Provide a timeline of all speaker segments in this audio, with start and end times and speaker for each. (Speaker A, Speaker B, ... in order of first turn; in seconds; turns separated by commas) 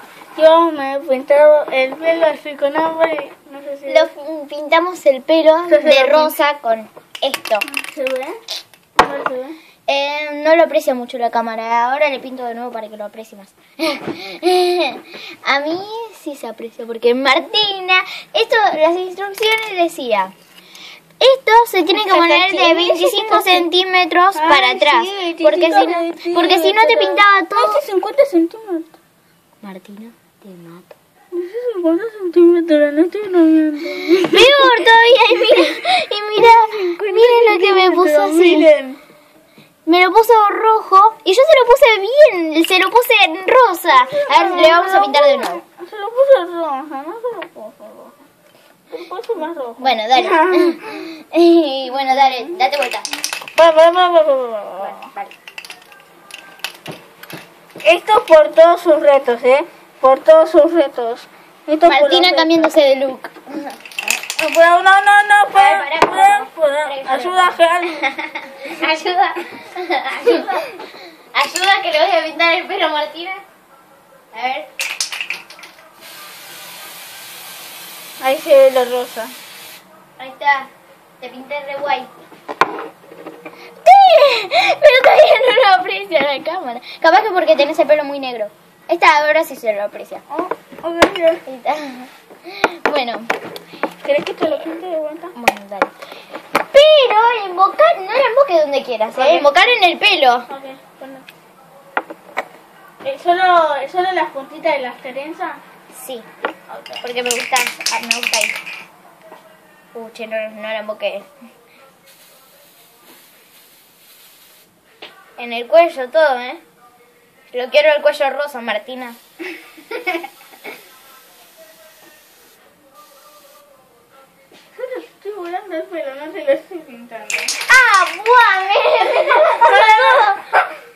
Speaker A: 0.3-4.1, Speaker B: 3.9-7.7, Speaker A: 5.7-6.3, Speaker A: 7.6-8.4, Speaker A: 9.0-9.6, Speaker B: 9.9-20.3, Speaker B: 21.2-27.8, Speaker A: 21.9-23.7, Speaker A: 24.3-29.0, Speaker B: 29.6-30.9, Speaker A: 31.3-34.8, Speaker B: 33.9-38.7, Speaker A: 35.5-35.8, Speaker A: 36.4-39.0, Speaker B: 39.9-45.6, Speaker A: 44.0-48.2, Speaker A: 48.9-51.0, Speaker B: 49.8-53.1, Speaker A: 53.5-55.1, Speaker B: 54.8-55.3, Speaker A: 57.8-62.7, Speaker B: 61.9-63.8, Speaker A: 64.3-68.1, Speaker B: 65.5-70.8, Speaker A: 70.2-70.5, Speaker B: 71.3-73.4, Speaker B: 74.3-74.7, Speaker A: 78.2-79.3, Speaker B: 80.2-80.7, Speaker B: 81.2-82.1, Speaker B: 83.8-90.2, Speaker A: 90.3-91.4, Speaker B: 91.5-93.3, Speaker A: 94.0-95.3, Speaker B: 95.3-95.9, Speaker B: 96.6-100.5, Speaker A: 99.1-99.5, Speaker A: 100.5-101.3, Speaker A: 103.0-105.6, Speaker B: 105.9-106.2, Speaker A: 106.7-107.0, Speaker B: 107.0-108.6, Speaker B: 109.9-111.3, Speaker B: 115.4-116.6, Speaker B: 117.5-119.2, Speaker B: 119.9-120.2, Speaker A: 124.7-127.5, Speaker B: 127.6-130.4, Speaker A: 129.4-130.3